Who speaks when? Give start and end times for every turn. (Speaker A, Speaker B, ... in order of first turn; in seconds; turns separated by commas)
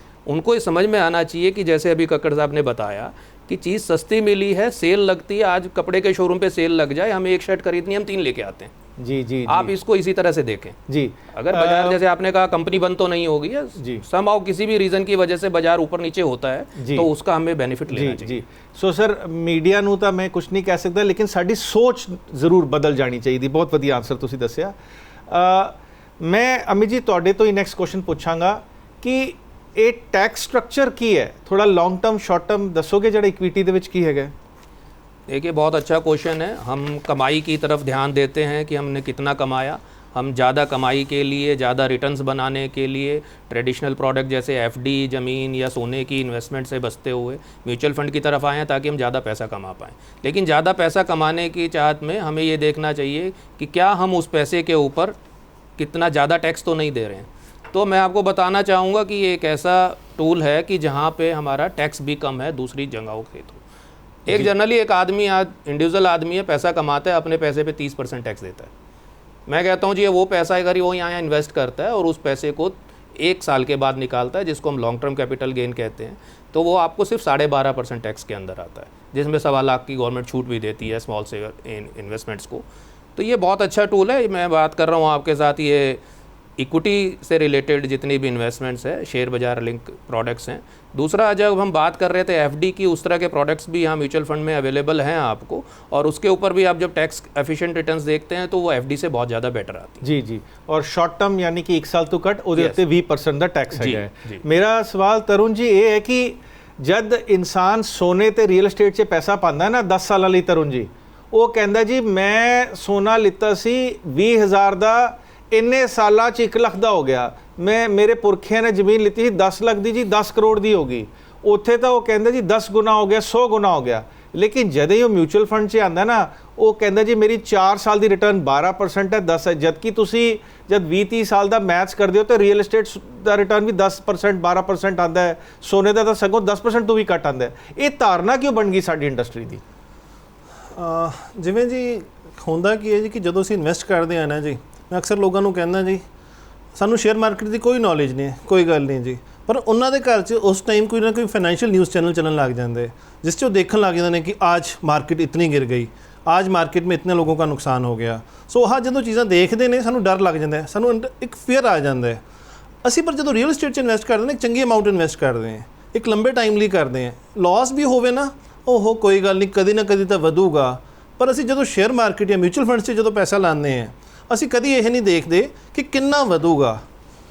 Speaker A: 0.2-8.7, Speaker B: 9.0-9.7, Speaker A: 9.5-10.8, Speaker B: 10.9-12.0, Speaker A: 11.3-18.4, Speaker B: 13.8-14.0, Speaker B: 16.8-17.1, Speaker B: 17.9-24.7, Speaker B: 25.3-34.3, Speaker A: 35.3-55.1, Speaker A: 55.8-63.6, Speaker A: 64.2-68.7, Speaker A: 69.5-82.6, Speaker A: 83.2-86.0, Speaker A: 86.6-100.0, Speaker B: 100.0-139.6, Speaker A: 103.7-104.4, Speaker C: 140.7-146.0, Speaker C: 146.7-162.2, Speaker C: 162.8-176.8